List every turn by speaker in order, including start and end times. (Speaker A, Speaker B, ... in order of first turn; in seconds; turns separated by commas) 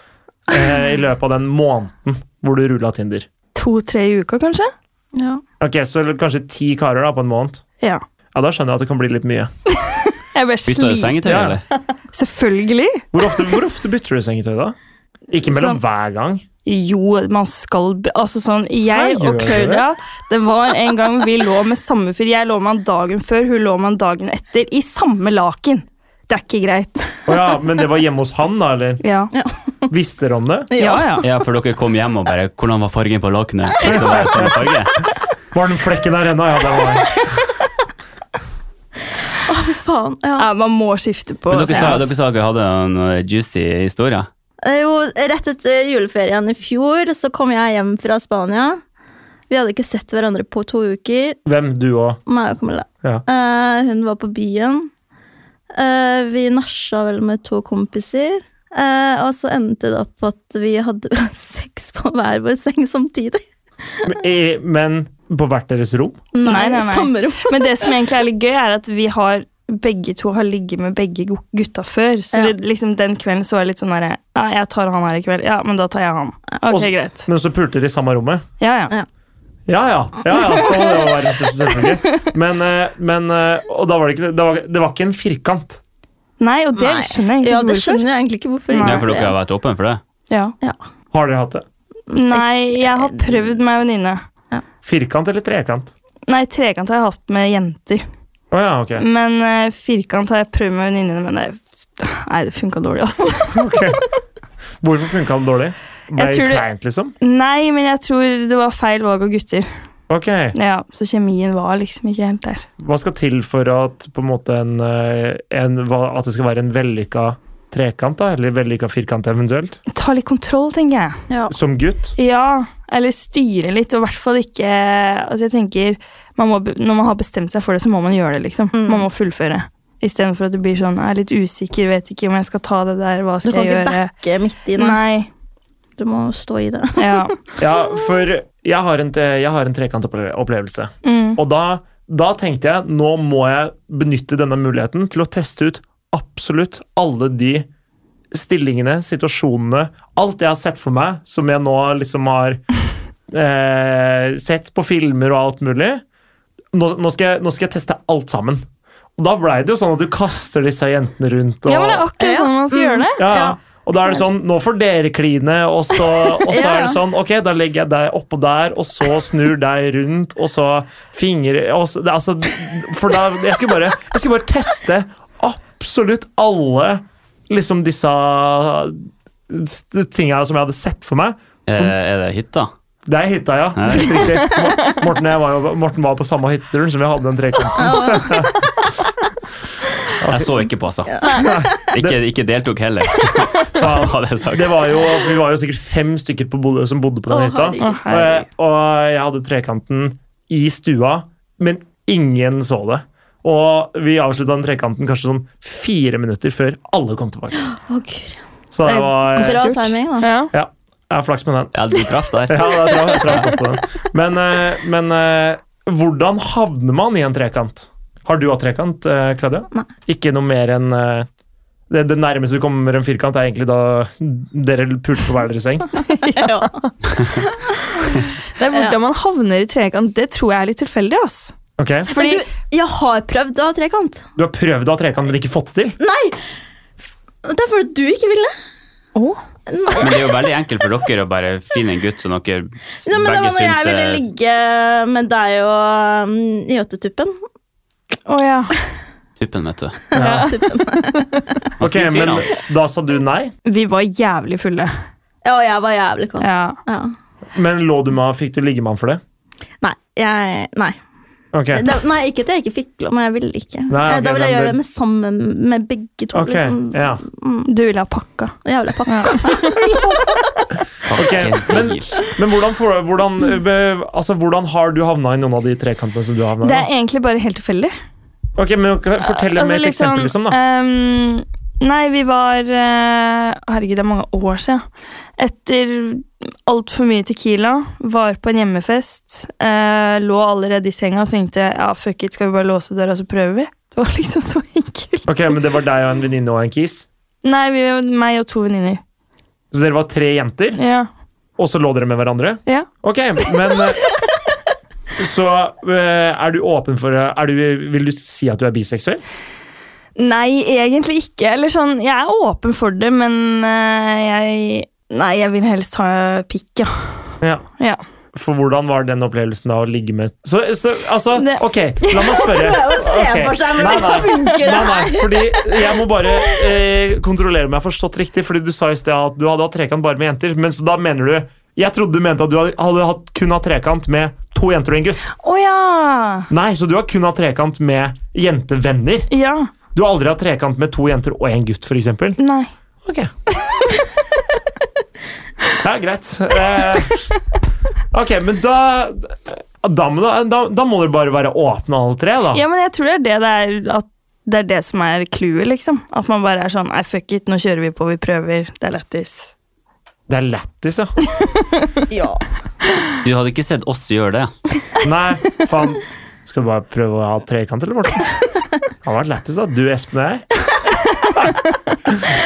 Speaker A: 0.5-3.3, Speaker B: 3.5-4.7, Speaker C: 5.1-5.4, Speaker A: 5.6-7.6, Speaker A: 8.3-9.5, Speaker B: 9.8-11.2, Speaker D: 10.7-11.6, Speaker A: 11.2-11.6, Speaker B: 12.1-13.1, Speaker A: 13.1-14.7, Speaker A: 15.3-16.4, Speaker B: 15.4-15.8, Speaker B: 16.6-27.1, Speaker A: 18.9-19.9, Speaker A: 27.3-29.0, Speaker B: 29.0-29.3, Speaker C: 29.3-29.9, Speaker A: 29.9-30.7, Speaker C: 30.7-31.2, Speaker B: 30.8-31.2, Speaker D: 31.2-34.9, Speaker A: 33.8-34.6, Speaker A: 35.5-37.3, Speaker C: 39.4-40.5, Speaker B: 40.4-42.1, Speaker D: 41.5-44.3, Speaker C: 44.6-48.8, Speaker C: 49.5-51.4, Speaker A: 51.4-52.2, Speaker C: 52.3-54.9, Speaker C: 55.7-63.4, Speaker A: 64.0-66.2, Speaker C: 66.3-67.9, Speaker B: 66.4-77.3, Speaker A: 76.7-78.4, Speaker B: 78.6-78.9, Speaker A: 79.7-85.8, Speaker C: 80.3-81.1, Speaker B: 86.4-88.0, Speaker C: 86.8-89.3, Speaker B: 88.7-89.1, Speaker D: 88.8-90.0, Speaker B: 90.3-90.5, Speaker A: 91.1-91.6, Speaker C: 92.1-93.5, Speaker B: 92.1-94.2, Speaker A: 94.8-95.9, Speaker B: 96.3-98.0, Speaker A: 98.5-99.0, Speaker B: 99.0-103.7, Speaker A: 103.5-104.0, Speaker A: 104.8-107.1, Speaker B: 106.2-106.7, Speaker B: 107.2-109.7, Speaker A: 110.1-110.5, Speaker B: 110.5-112.7, Speaker A: 112.8-119.8, Speaker B: 119.9-121.2, Speaker C: 121.3-121.5, Speaker A: 121.5-122.1, Speaker B: 122.2-134.1, Speaker C: 128.7-129.1, Speaker C: 133.4-135.0, Speaker B: 134.8-135.3, Speaker C: 136.0-137.3, Speaker B: 137.0-137.4, Speaker A: 137.6-147.7, Speaker B: 141.0-141.4, Speaker A: 148.3-152.6, Speaker A: 153.3-156.0, Speaker A: 156.7-158.6, Speaker A: 159.2-162.1, Speaker B: 161.7-163.2, Speaker C: 162.2-163.6, Speaker A: 163.2-181.9, Speaker C: 166.5-167.0, Speaker D: 181.7-182.7, Speaker A: 183.1-188.5, Speaker D: 183.7-184.4, Speaker B: 184.4-184.9, Speaker C: 187.8-188.6, Speaker A: 190.2-190.5, Speaker D: 190.2-195.0, Speaker C: 191.2-191.7, Speaker A: 191.3-192.2, Speaker A: 193.7-207.6, Speaker C: 197.3-198.1, Speaker B: 197.8-198.4, Speaker C: 207.6-208.4, Speaker A: 208.7-209.7, Speaker B: 208.8-210.5, Speaker C: 208.9-210.3, Speaker A: 210.5-211.8, Speaker D: 211.7-213.5, Speaker A: 212.4-221.3, Speaker A: 221.9-225.9, Speaker B: 226.1-226.9, Speaker C: 226.2-226.8, Speaker C: 227.8-228.2, Speaker B: 228.6-231.5, Speaker C: 228.7-229.0, Speaker A: 231.8-232.1, Speaker C: 232.1-234.2, Speaker B: 232.1-232.4, Speaker A: 234.4-236.0, Speaker C: 236.0-236.4, Speaker C: 237.4-238.5, Speaker B: 239.1-239.4, Speaker C: 239.7-240.4, Speaker D: 240.0-244.2, Speaker C: 243.1-247.3, Speaker B: 248.3-248.7, Speaker D: 249.4-250.0, Speaker A: 250.1-250.5, Speaker B: 250.1-251.3, Speaker C: 250.2-251.4, Speaker D: 251.8-252.5, Speaker A: 251.8-253.5, Speaker B: 253.7-254.9, Speaker C: 255.4-257.1, Speaker B: 256.4-256.8, Speaker A: 257.5-259.2, Speaker C: 259.8-261.0, Speaker A: 261.5-261.9, Speaker C: 261.7-267.7, Speaker A: 263.9-264.8, Speaker A: 266.3-267.2, Speaker B: 267.6-268.6, Speaker C: 268.6-269.8, Speaker B: 269.1-269.8, Speaker A: 269.6-270.2, Speaker D: 271.1-272.1, Speaker A: 271.1-276.9, Speaker B: 276.6-277.9, Speaker A: 278.6-280.6, Speaker B: 279.2-284.8, Speaker B: 285.4-295.6, Speaker A: 295.3-297.1, Speaker B: 297.4-299.0, Speaker A: 299.7-300.8, Speaker B: 300.8-301.1, Speaker A: 301.6-304.1, Speaker A: 305.2-309.2, Speaker B: 310.1-317.1, Speaker A: 318.3-335.3, Speaker B: 321.4-322.4, Speaker C: 322.4-326.0, Speaker B: 335.4-336.5, Speaker A: 336.5-339.3, Speaker B: 339.3-339.7, Speaker A: 339.9-342.4, Speaker B: 342.4-342.7, Speaker A: 343.1-343.3, Speaker A: 345.8-347.3, Speaker A: 348.1-352.6, Speaker B: 352.5-359.5, Speaker A: 360.3-361.1, Speaker B: 361.4-361.9, Speaker C: 362.1-362.4, Speaker D: 363.2-364.5, Speaker A: 365.0-368.3, Speaker A: 369.0-370.4, Speaker A: 372.1-372.3